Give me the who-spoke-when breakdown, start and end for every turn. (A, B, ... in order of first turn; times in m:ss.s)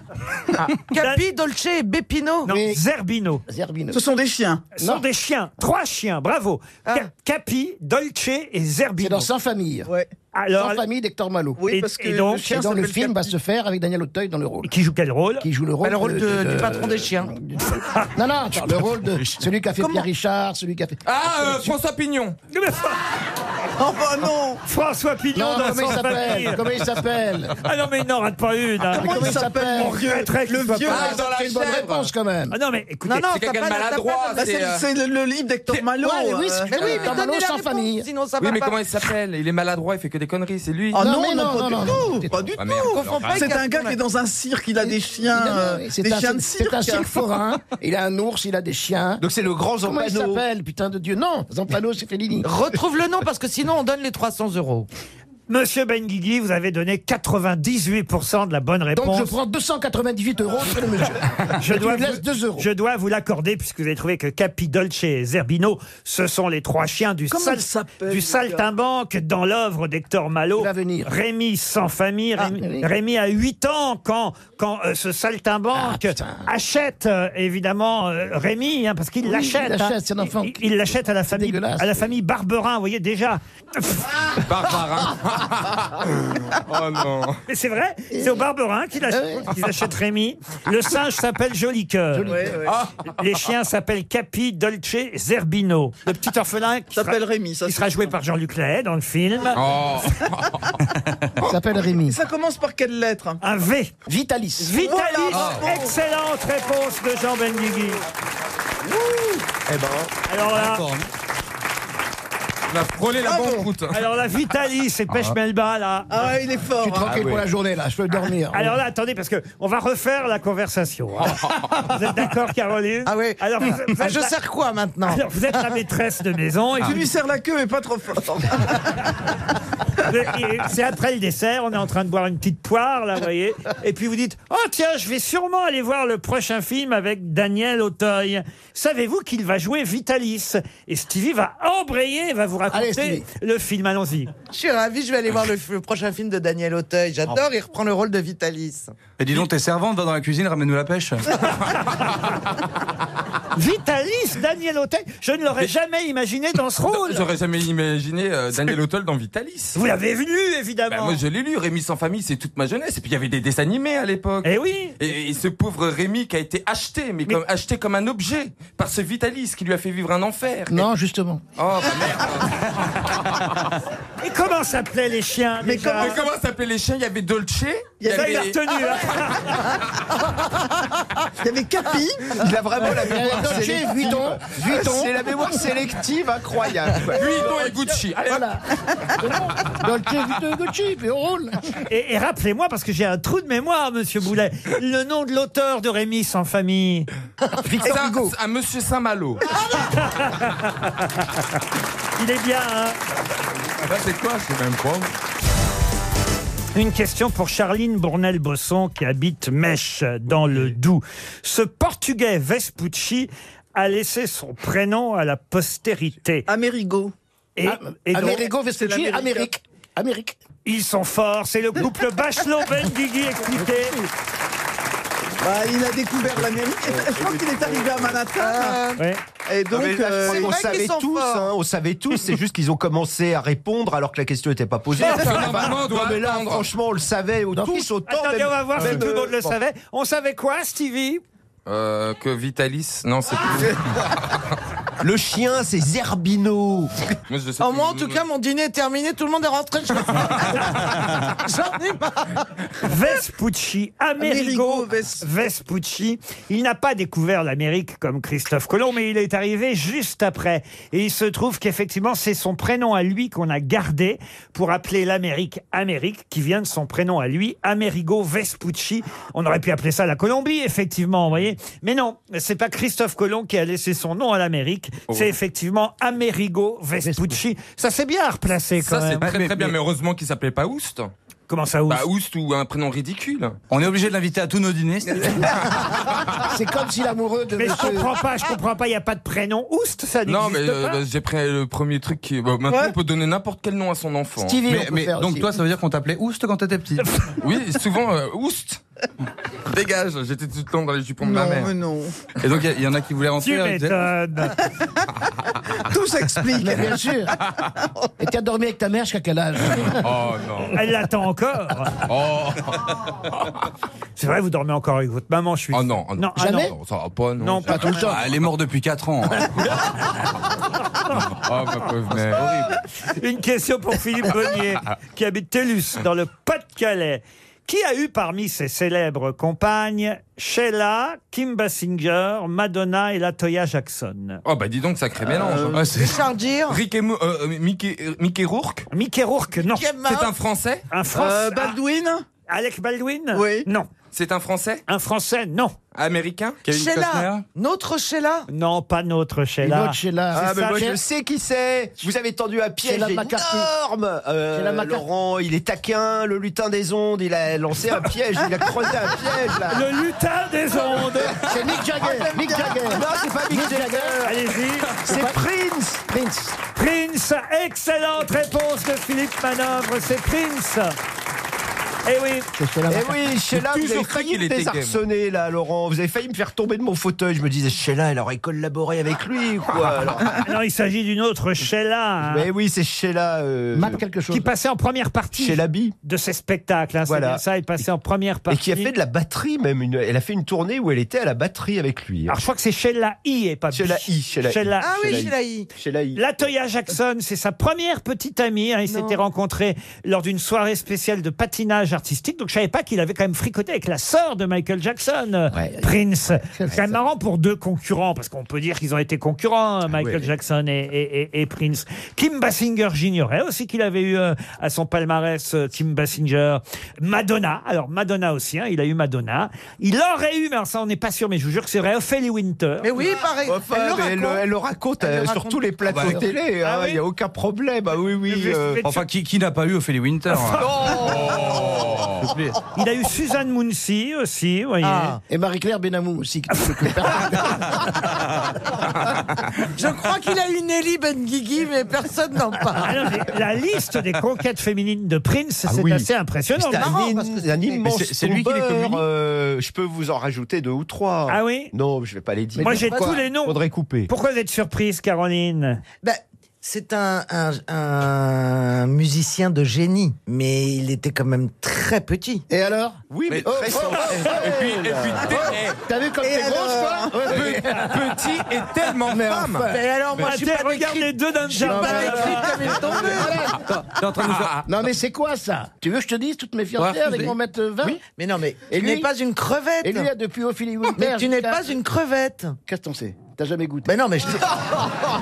0:00.9-0:02.5 A
0:00.9-0:01.2 B
0:02.5-0:03.4 B
0:02.5-0:02.8 C
0:03.5-0:04.0 C
0:03.9-0:04.7 D
0:04.8-0:09.3 B
0:04.8-0:05.0 C
0:09.0-0:09.9 C
0:09.9-0:10.1 D
0:10.3-0:10.8 B
0:10.6-0:11.6 C
0:11.6-0:13.3 D
0:11.7-0:12.5 B
0:12.4-0:14.7 C
0:14.6-0:15.5 B
0:15.4-0:21.7 C
0:15.8-0:17.3 A
0:18.6-0:19.4 E
0:19.8-0:20.1 D
0:21.0-0:22.4 F
0:22.5-0:23.0 B
0:23.8-0:24.6 D
0:24.6-0:26.8 B
0:25.3-0:27.6 C
0:27.6-0:31.2 B
0:28.9-0:30.1 C
0:28.9-0:31.3 D
0:30.8-0:32.1 F
0:30.9-0:32.6 C
0:32.5-0:33.4 B
0:33.1-0:34.5 A
0:33.3-0:34.9 F
0:34.4-0:36.8 D
0:36.0-0:38.1 C
0:36.7-0:39.0 A
0:36.8-0:37.2 F
0:38.4-0:41.1 F
0:40.9-0:47.1 D
0:41.0-0:42.4 C
0:42.6-0:43.6 F
0:42.8-0:44.0 A
0:44.8-0:49.2 C
0:49.2-0:50.4 G
0:49.8-0:52.5 C
0:52.4-0:54.9 A
0:55.5-0:59.4 B
0:58.9-1:02.7 C
1:01.6-1:24.2 B
1:07.3-1:08.7 D
1:10.6-1:11.1 C
1:12.4-1:12.9 C
1:15.7-1:16.4 C
1:19.2-1:22.1 C
1:24.4-1:27.4 F
1:27.5-1:32.5 B
1:28.1-1:28.5 C
1:29.1-1:29.5 C
1:32.1-1:32.7 C
1:32.3-1:32.8 D
1:32.6-1:33.1 F
1:33.2-1:39.6 B
1:36.9-1:38.1 D
1:39.5-1:40.8 F
1:40.9-1:41.2 E
1:41.4-1:42.2 C
1:41.9-1:43.4 D
1:43.4-1:43.9 B
1:44.1-1:44.9 C
1:44.6-1:48.0 B
1:44.6-1:46.0 D
1:45.3-1:45.7 E
1:48.9-1:49.4 D
1:49.7-1:50.1 G
1:50.3-1:50.9 B
1:50.5-1:51.1 E
1:52.7-1:54.0 F
1:53.2-1:53.7 D
1:53.9-1:56.3 B
1:55.1-1:55.4 E
1:56.1-1:57.3 D
1:56.8-1:58.8 C
1:57.1-1:57.4 G
1:58.5-2:04.3 B
2:01.2-2:01.9 F
2:03.1-2:05.6 A
2:05.1-2:07.1 B
2:06.8-2:09.0 D
2:10.0-2:24.3 B
2:22.7-2:23.2 C
2:24.5-2:29.0 A
2:29.2-2:31.3 E
2:33.6-2:37.3 B
2:36.9-2:39.8 F
2:39.8-2:41.2 B
2:40.9-2:50.9 F
2:44.4-2:45.0 B
2:50.7-2:51.4 C
2:51.6-2:53.6 F
2:54.2-2:56.2 B
2:55.6-2:56.3 D
2:56.0-2:58.6 F
2:58.0-2:58.5 D
2:58.1-2:59.8 B
3:01.4-3:02.4 D
3:02.4-3:07.6 G
3:02.8-3:05.4 C
3:07.1-3:08.6 F
3:08.3-3:11.8 C
3:11.9-3:17.1 B
3:17.5-3:18.3 C
3:17.8-3:19.4 F
3:19.6-3:21.4 B
3:22.2-3:23.0 B
3:23.8-3:25.1 F
3:26.8-3:36.5 B
3:36.5-3:37.1 D
3:37.6-3:38.4 B
3:37.6-3:40.4 C
3:38.2-3:39.5 D
3:40.6-3:44.0 B
3:43.6-3:44.1 C
3:45.4-3:48.8 D
3:46.9-3:48.2 G
3:48.4-3:49.0 A
3:49.5-3:50.7 D
3:49.7-3:59.6 G
3:50.2-3:51.5 A
3:54.9-3:56.7 F
3:57.5-3:57.9 C
3:58.1-4:01.2 B
4:01.7-4:04.4 F
4:05.0-4:07.0 G
4:07.3-4:08.2 F
4:07.6-4:12.4 A
4:12.8-4:39.3 B
4:14.2-4:15.3 D
4:37.0-4:37.4 C
4:38.8-4:41.1 F
4:39.2-4:39.7 E
4:41.5-4:42.1 B
4:41.9-4:43.6 F
4:43.7-4:45.5 E
4:45.2-4:45.6 C
4:46.4-4:48.2 C
4:47.6-4:51.0 B
4:50.3-4:54.7 F
4:52.7-4:53.0 D
4:54.4-4:55.5 C
4:54.6-4:57.2 E
4:57.4-4:58.8 F
4:59.7-5:01.7 F
5:01.2-5:02.2 D
5:02.4-5:04.0 E
5:03.4-5:04.6 B
5:05.8-5:07.1 D
5:06.5-5:07.4 C
5:08.2-5:10.1 C
5:09.7-5:10.8 F
5:10.7-5:11.9 B
5:12.0-5:13.5 F
5:14.2-5:16.7 B
5:15.7-5:18.2 F
5:16.4-5:16.8 C
5:17.4-5:18.0 B
5:17.7-5:18.3 C
5:18.0-5:19.7 E
5:21.2-5:22.6 F
5:22.2-5:22.6 E
5:23.0-5:34.4 B
5:34.4-5:35.8 F
5:35.2-5:35.9 D
5:35.7-5:36.2 E
5:36.0-5:36.8 A
5:36.7-5:38.9 F
5:38.9-5:39.9 B
5:39.6-5:40.3 A
5:40.0-5:40.9 F
5:40.9-5:41.8 B
5:41.1-5:42.2 D
5:42.5-5:43.9 B
5:43.3-5:43.7 D
5:44.1-5:44.8 F
5:44.9-5:45.8 B
5:46.0-5:46.6 F
5:46.6-5:47.4 E
5:46.7-5:48.5 A
5:48.5-5:50.8 B
5:49.6-5:51.0 C
5:50.3-5:59.9 G
5:52.8-5:53.7 C
5:54.5-5:55.0 C
5:59.7-6:01.4 B
6:01.0-6:03.0 D
6:01.4-6:04.2 C
6:02.8-6:04.4 G
6:04.2-6:04.9 B
6:05.0-6:06.0 G
6:05.0-6:05.4 C
6:06.1-6:06.6 C
6:06.8-6:11.0 B
6:12.1-6:12.5 B
6:12.6-6:13.3 C
6:12.9-6:20.4 G
6:13.5-6:15.0 F
6:20.4-6:22.5 B
6:22.2-6:24.0 G
6:23.7-6:24.5 C
6:24.3-6:28.9 B
6:25.4-6:26.0 G
6:27.1-6:27.8 G
6:28.5-6:32.4 G
6:32.3-6:35.2 B
6:33.7-6:36.2 G
6:34.8-6:35.7 A
6:36.2-7:02.9 B
6:45.5-6:45.9 C
6:46.5-6:47.0 C
7:02.8-7:04.5 A
7:03.5-7:08.8 G
7:05.0-7:05.7 A
7:05.9-7:06.2 E
7:06.6-7:07.0 B
7:08.3-7:09.1 B
7:08.8-7:11.1 E
7:10.3-7:10.6 B
7:10.8-7:11.7 A
7:11.0-7:12.3 F
7:12.1-7:12.6 E
7:12.8-7:15.2 B
7:14.8-7:15.2 A
7:15.3-7:18.1 C
7:19.8-7:23.0 A
7:22.8-7:27.0 B
7:25.7-7:34.1 G
7:26.7-7:27.8 A
7:27.8-7:29.0 E
7:31.3-7:31.7 B
7:32.6-7:33.2 C
7:32.6-7:35.8 B
7:36.0-7:42.4 A
7:42.5-7:44.5 C
7:43.1-7:45.5 G
7:43.3-7:43.7 E
7:44.0-7:45.8 F
7:45.3-7:49.8 C
7:46.2-7:47.4 D
7:47.2-7:49.7 F
7:49.7-7:53.5 A
7:50.2-7:52.5 B
7:51.6-7:53.8 C
7:53.7-7:54.6 E
7:54.2-7:54.6 F
7:54.6-7:58.0 C
7:56.8-7:57.3 A
7:57.0-7:57.3 E
7:57.8-8:00.1 A
7:58.7-7:59.1 C
7:59.8-8:01.6 C
8:00.9-8:02.6 A
8:02.7-8:03.9 C
8:03.9-8:04.4 A